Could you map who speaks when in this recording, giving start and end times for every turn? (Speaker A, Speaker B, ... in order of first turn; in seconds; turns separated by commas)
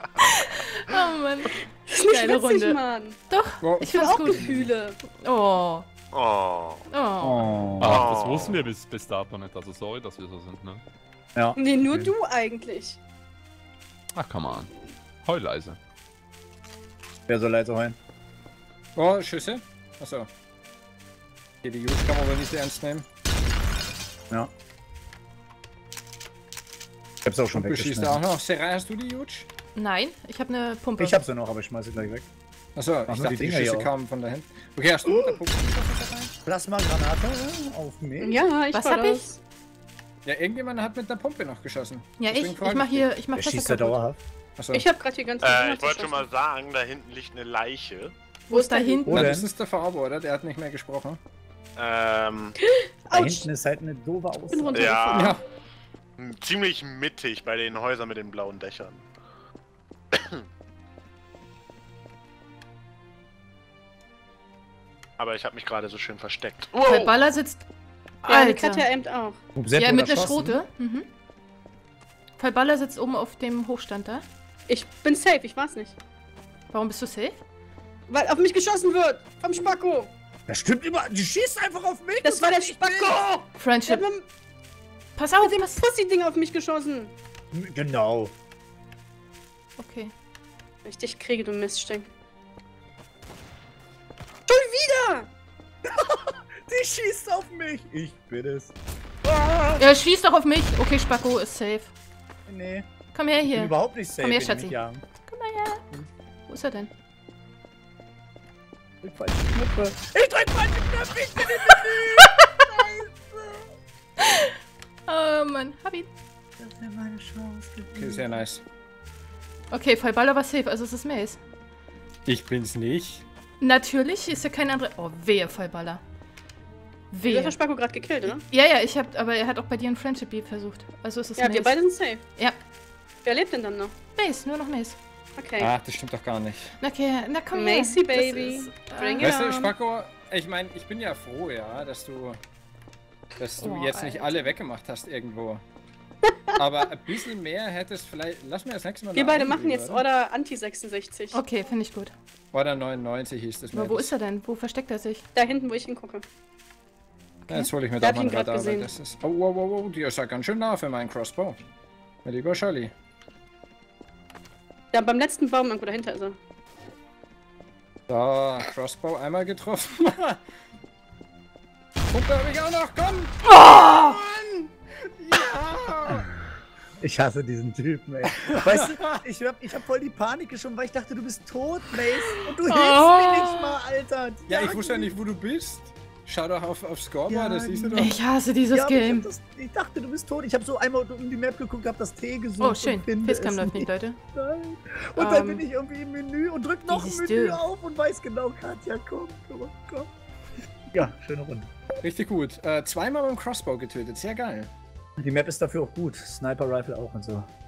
Speaker A: 0.3-5.9, Speaker B: 1.9-3.2, Speaker C: 3.6-4.6, Speaker B: 3.8-5.0, Speaker D: 6.1-6.8, Speaker A: 6.9-7.5, Speaker E: 7.2-8.1, Speaker F: 7.8-10.8, Speaker D: 7.8-8.7, Speaker E: 11.3-12.1, Speaker B: 11.6-13.0, Speaker F: 14.1-14.7, Speaker F: 15.2-15.8, Speaker E: 17.3-17.9, Speaker C: 18.9-20.3, Speaker C: 21.6-23.1, Speaker E: 27.2-28.2, Speaker C: 27.5-29.5, Speaker A: 29.7-31.2, Speaker E: 31.0-32.3, Speaker C: 32.8-36.3, Speaker E: 33.1-33.9, Speaker E: 35.1-35.3, Speaker E: 36.4-38.4, Speaker B: 38.2-39.4, Speaker A: 38.7-39.2, Speaker C: 40.2-43.1, Speaker A: 42.2-44.0, Speaker E: 43.4-44.2, Speaker C: 44.6-44.8, Speaker B: 44.7-46.3, Speaker D: 45.4-48.1, Speaker A: 48.5-49.4, Speaker B: 48.5-49.1, Speaker E: 49.1-49.5, Speaker C: 49.1-51.2, Speaker D: 51.8-52.5, Speaker B: 52.6-53.5, Speaker E: 53.1-55.1, Speaker B: 54.5-55.4, Speaker D: 54.7-55.3, Speaker C: 55.1-55.4, Speaker D: 56.2-59.0, Speaker D: 60.1-60.4, Speaker D: 65.2-67.1, Speaker A: 66.8-67.6, Speaker A: 68.2-68.8, Speaker B: 68.2-69.4, Speaker E: 69.5-70.6, Speaker A: 69.7-71.1, Speaker A: 72.4-74.2, Speaker B: 74.7-76.0, Speaker A: 76.7-77.4, Speaker B: 78.1-80.1, Speaker E: 80.5-83.5, Speaker B: 82.2-83.3, Speaker A: 83.5-84.0, Speaker B: 83.8-84.2, Speaker A: 85.2-85.8, Speaker B: 85.4-87.1, Speaker E: 87.5-88.3, Speaker A: 89.8-90.1, Speaker B: 90.8-92.1, Speaker B: 94.5-95.3, Speaker E: 95.8-99.9, Speaker A: 99.8-101.9, Speaker E: 102.5-102.8, Speaker A: 103.1-105.9, Speaker E: 103.4-105.0, Speaker A: 106.5-106.9, Speaker E: 109.0-113.7, Speaker A: 114.2-114.5, Speaker A: 115.1-116.1, Speaker E: 116.6-118.4, Speaker C: 118.0-118.6, Speaker A: 119.7-121.4, Speaker C: 122.2-123.2, Speaker A: 123.6-126.0, Speaker A: 127.1-127.6, Speaker B: 127.2-128.4, Speaker A: 128.2-132.6, Speaker B: 131.4-132.2, Speaker B: 133.2-133.9, Speaker A: 134.2-135.0, Speaker B: 135.4-135.7, Speaker C: 135.6-136.8, Speaker A: 136.8-139.4, Speaker B: 137.5-139.7, Speaker C: 139.2-142.4, Speaker C: 143.4-145.6, Speaker A: 143.6-144.5, Speaker B: 146.2-146.5, Speaker C: 146.6-150.0, Speaker B: 149.1-151.4, Speaker A: 151.3-152.1, Speaker C: 152.5-154.1, Speaker A: 153.7-155.2, Speaker B: 155.3-156.2, Speaker C: 157.5-161.6, Speaker B: 158.0-158.9, Speaker C: 162.2-162.9, Speaker B: 164.9-166.3, Speaker C: 168.1-170.4, Speaker C: 172.1-176.3, Speaker A: 173.5-174.2, Speaker E: 177.0-185.1, Speaker C: 178.4-179.0, Speaker A: 182.6-183.8, Speaker C: 184.5-188.1, Speaker E: 187.3-188.2, Speaker A: 188.0-189.3, Speaker E: 188.7-200.1, Speaker A: 192.6-194.2, Speaker A: 195.2-195.6, Speaker A: 196.9-197.6, Speaker E: 200.9-201.7, Speaker C: 202.0-204.7, Speaker E: 205.2-207.5